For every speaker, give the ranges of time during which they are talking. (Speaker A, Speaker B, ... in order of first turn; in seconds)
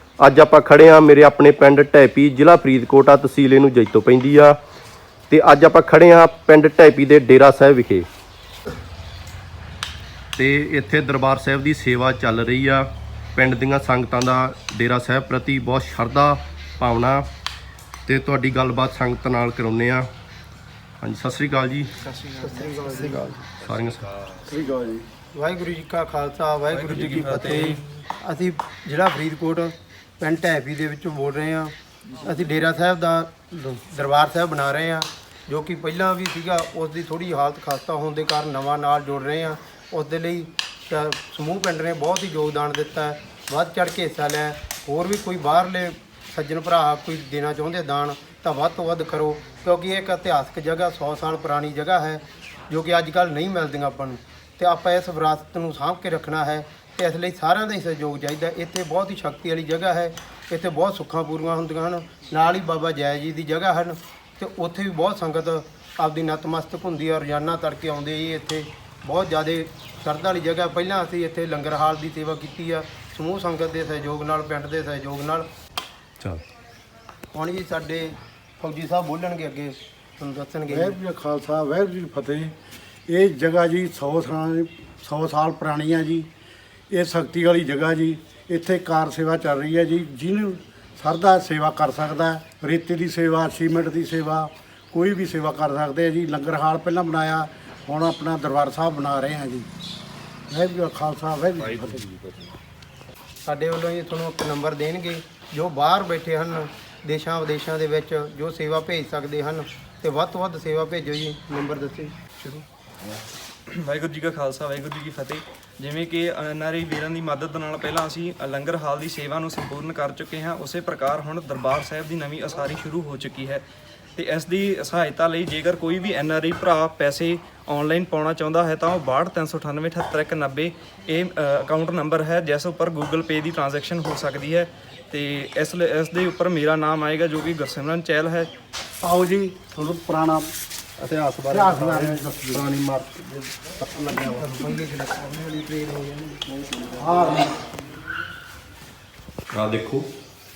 Speaker A: 0.2-4.6, 5.3-8.1, 10.4-17.3, 18.1-20.1, 21.0-21.9, 23.5-24.1, 141.0-141.7, 149.5-150.1
Speaker B: 22.1-23.2, 26.7-27.9, 112.4-112.7, 113.7-123.7, 124.2-138.5
Speaker C: 22.3-23.4, 25.3-75.5, 77.3-81.0, 103.5-112.2, 144.5-146.4
Speaker D: 24.4-25.1, 80.7-82.5, 83.1-86.3, 86.9-99.7, 100.5-102.1, 139.0-140.5, 141.5-143.1, 143.9-144.5, 147.0-147.5